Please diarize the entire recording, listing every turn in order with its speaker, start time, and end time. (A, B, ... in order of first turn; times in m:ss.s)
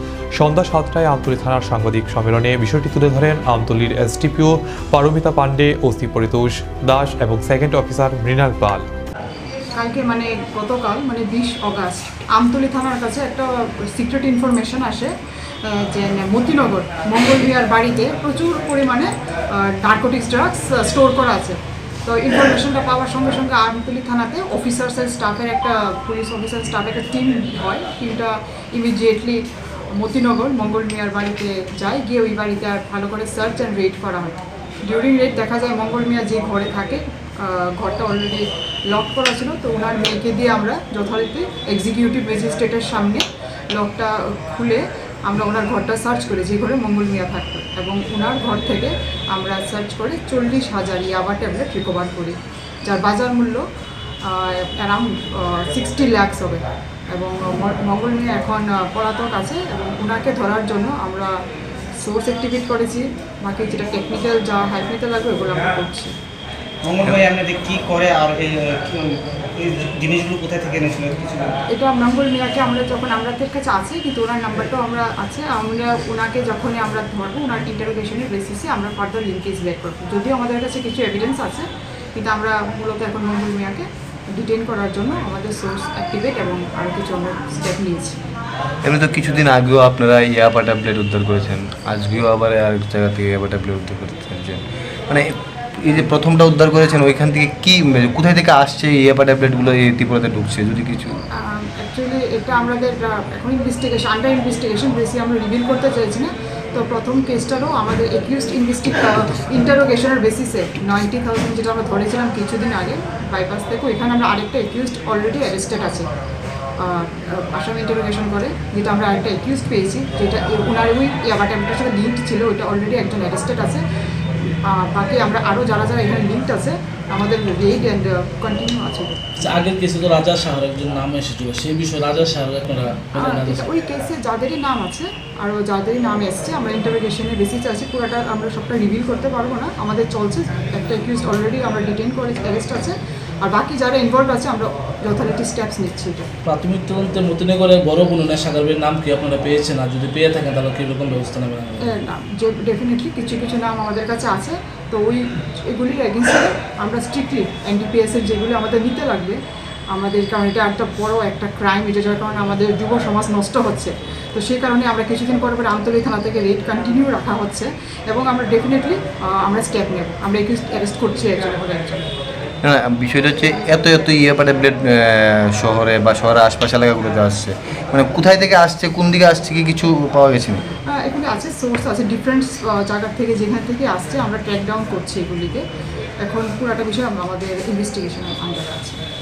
0:00.4-0:08.8 A
0:09.8-0:15.1 B
0:15.6-0:53.7 B
0:54.2-1:01.3 B
1:02.0-1:06.1 B
1:06.8-1:11.6 C
1:11.7-1:28.2 B
1:28.8-1:41.2 D
1:41.3-1:56.1 B
1:56.8-2:03.8 B
2:04.4-2:09.2 B
2:09.4-2:13.7 E
2:13.2-2:26.3 B
2:26.4-2:32.0 E
2:31.8-2:39.4 B
2:39.9-2:52.1 B
2:52.6-3:00.6 D
3:00.9-3:05.6 B
3:06.2-3:09.0 B